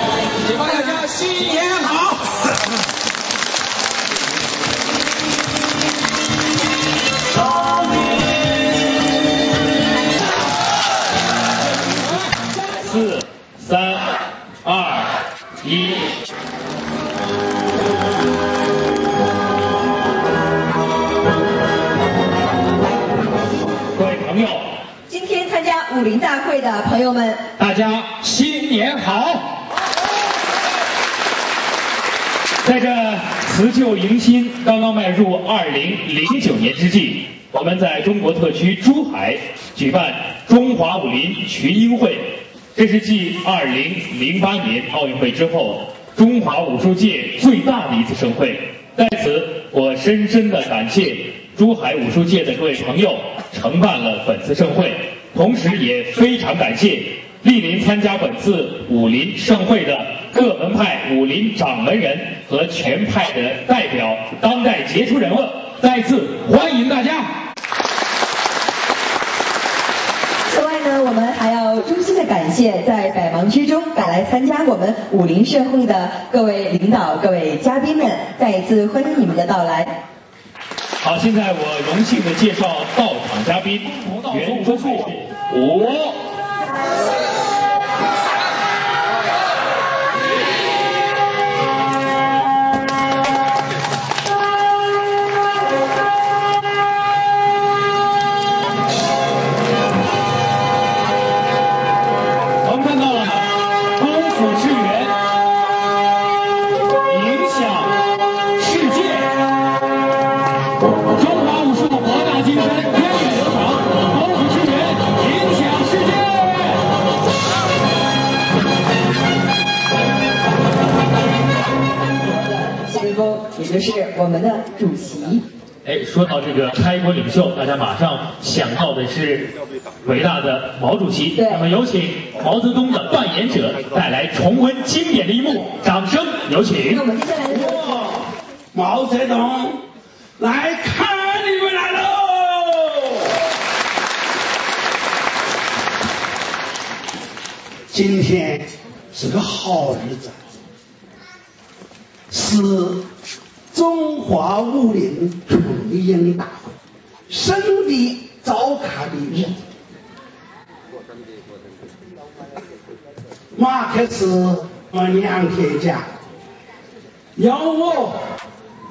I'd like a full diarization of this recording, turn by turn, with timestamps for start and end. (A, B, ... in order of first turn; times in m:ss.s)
0:00.6-0:02.0 A
0:12.6-0:16.1 A
0:23.9-0:24.7 A
0:25.1-0:27.5 B
0:27.6-0:29.5 A
0:32.6-1:07.3 A
1:10.5-1:20.0 B
1:21.0-1:26.2 A
1:42.6-1:45.2 A
1:47.1-1:48.0 A
1:48.6-1:49.4 A
1:51.1-1:56.7 A
2:02.3-2:05.5 B
2:05.8-2:17.0 A
2:11.4-2:11.7 B
2:16.9-2:18.0 B
2:17.6-2:19.8 C
2:20.4-2:23.4 C
2:27.9-2:30.4 C
2:32.3-2:33.1 C
2:33.7-2:36.7 C
2:37.3-2:39.6 C
2:43.6-2:46.1 C
2:47.4-2:48.2 C